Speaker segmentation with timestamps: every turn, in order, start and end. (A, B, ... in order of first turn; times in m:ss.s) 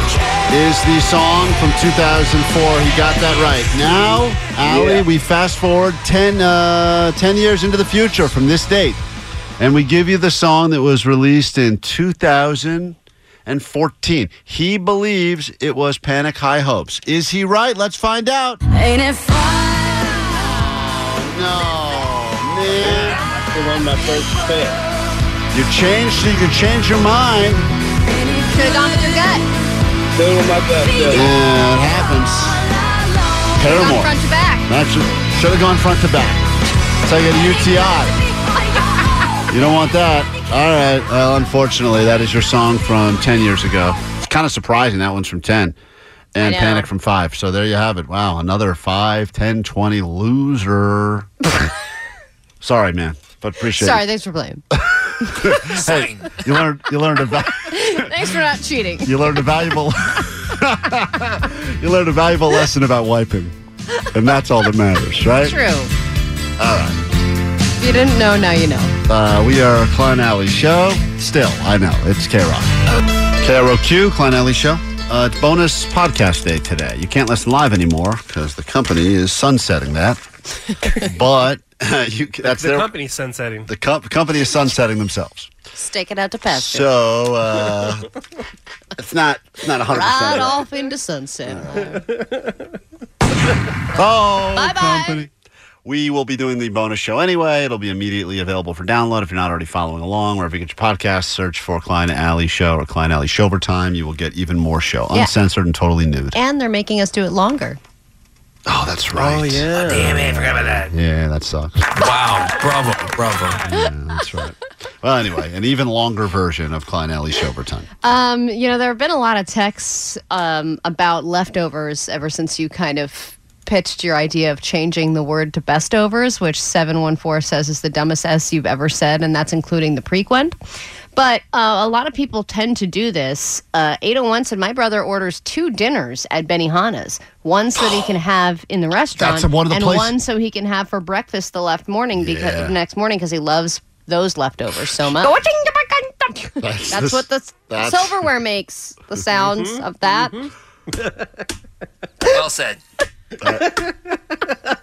0:00.5-0:09.0 A
0:04.6-0:05.0 B
0:09.6-0:18.6 A
0:20.7-0:23.2 A
0:22.8-0:24.8 B
0:25.5-0:27.7 A
0:28.4-0:29.4 C
0:30.1-0:31.2 B
0:31.1-0:32.6 A
0:33.5-0:34.1 A
0:33.7-0:34.7 C
0:34.7-0:36.5 A
0:37.0-0:38.2 A
0:39.5-0:45.8 A
0:46.3-0:51.5 A
0:46.4-0:46.9 C
0:52.6-0:54.0 A
0:53.8-0:54.6 C
0:54.7-0:58.0 A
0:55.7-0:56.4 D
0:57.7-0:59.3 C
0:59.0-1:03.5 A
1:04.1-1:05.6 A
1:05.4-1:05.9 C
1:06.6-1:07.0 A
1:07.8-1:09.0 C
1:09.1-1:12.8 A
1:13.4-1:20.2 A
1:20.9-1:22.9 A
1:22.4-1:23.7 E
1:23.7-1:25.5 A
1:25.7-1:26.9 C
1:26.5-1:28.0 A
1:28.9-1:30.6 A
1:29.9-1:32.0 C
1:31.5-1:31.8 A
1:33.9-1:35.3 A
1:34.5-1:35.2 C
1:35.8-1:46.4 A
1:46.3-1:47.8 C
1:48.6-1:51.9 A
1:49.2-1:50.1 E
1:49.7-1:50.9 D
1:51.9-1:53.5 D
1:53.7-1:57.9 A
1:58.0-2:10.6 C
2:11.1-2:30.4 C
2:19.2-2:20.2 A
2:22.2-2:22.7 A
2:26.6-2:28.2 A
2:32.2-2:32.8 D
2:33.4-2:33.8 A